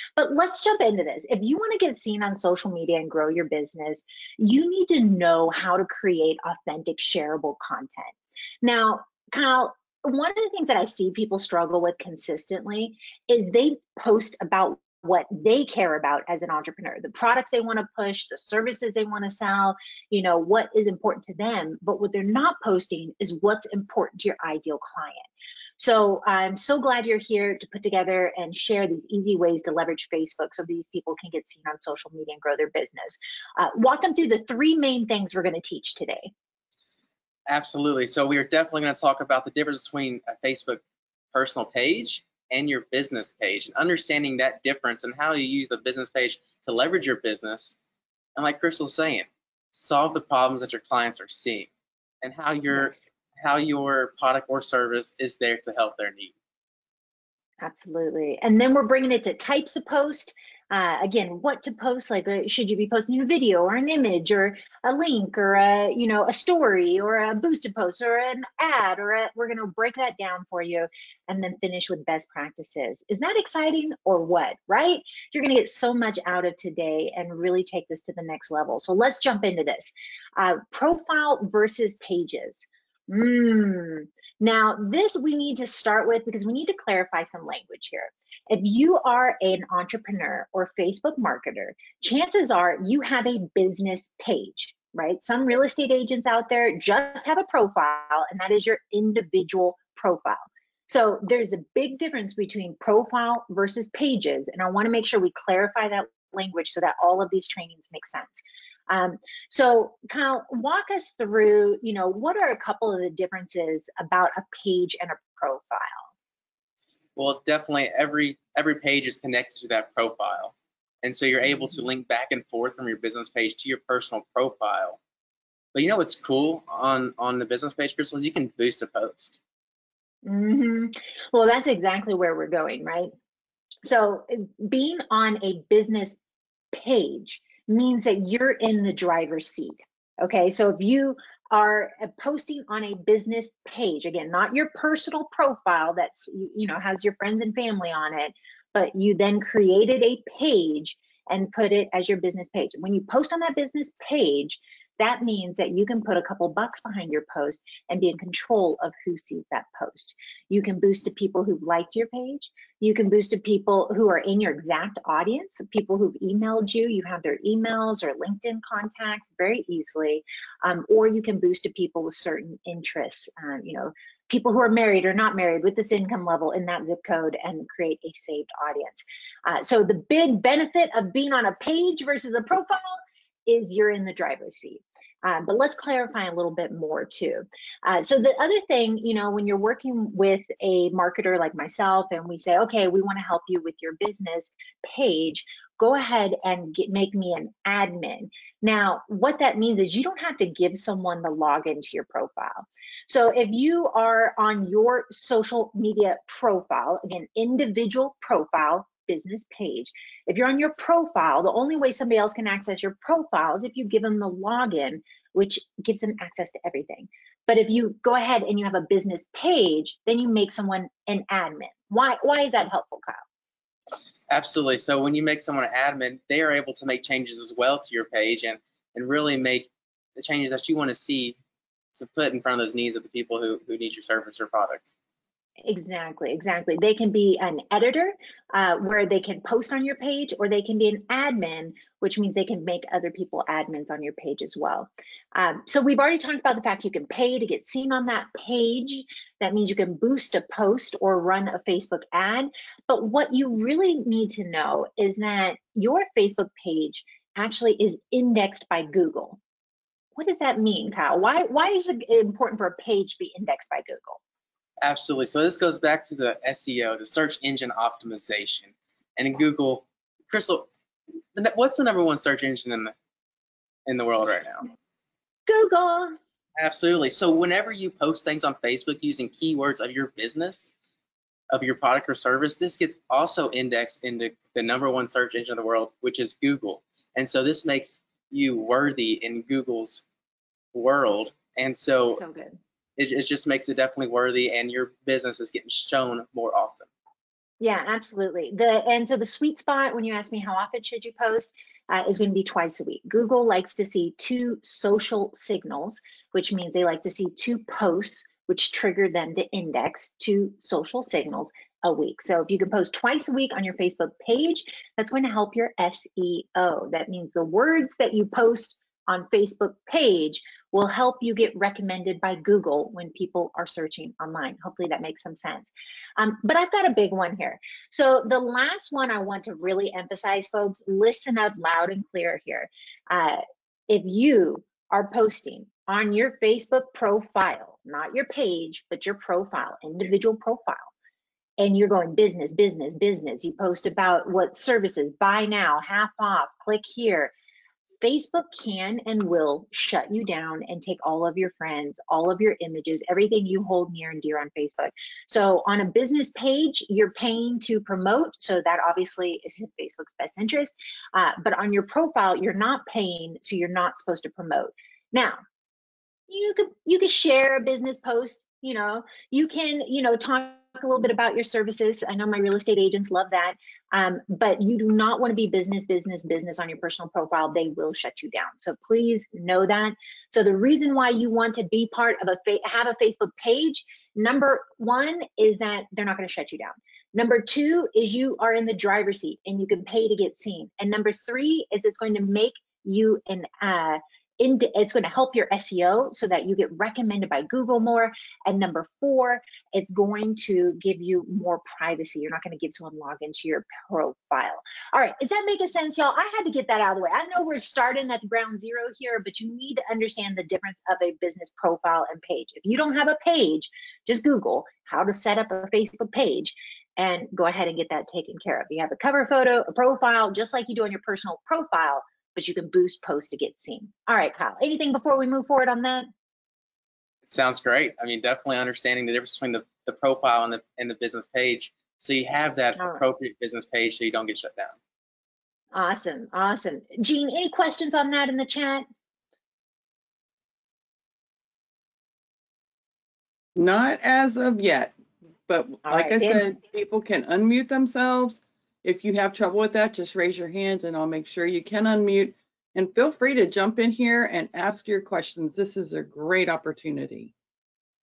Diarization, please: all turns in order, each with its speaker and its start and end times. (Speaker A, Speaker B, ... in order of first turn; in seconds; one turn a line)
Speaker A: 0.2-25.3
Speaker A: 25.8-36.3
Speaker B: 37.5-40.8
Speaker B: 41.3-47.8
Speaker B: 48.4-51.7
Speaker B: 52.2-56.3
Speaker A: 52.7-53.0
Speaker A: 57.6-116.1
Speaker B: 117.2-125.0
Speaker A: 121.5-121.8
Speaker B: 125.7-129.3
Speaker A: 130.2-133.1
Speaker A: 133.8-136.2
Speaker A: 136.7-223.2
Speaker B: 224.3-231.4
Speaker B: 231.9-234.9
Speaker A: 235.7-259.4
Speaker A: 260.2-264.2
Speaker B: 264.8-270.7
Speaker B: 271.4-272.9
Speaker B: 273.9-274.7
Speaker A: 275.5-276.2
Speaker B: 276.6-280.7
Speaker B: 281.5-290.0
Speaker B: 290.7-292.2
Speaker A: 292.1-292.6
Speaker B: 293.0-296.9
Speaker A: 297.6-340.9
Speaker A: 341.6-347.3
Speaker A: 348.0-365.4
Speaker A: 366.3-426.1
Speaker B: 427.2-434.8
Speaker A: 432.8-433.0
Speaker A: 435.7-438.9
Speaker C: 443.6-444.9
Speaker C: 445.5-457.3
Speaker A: 445.9-446.5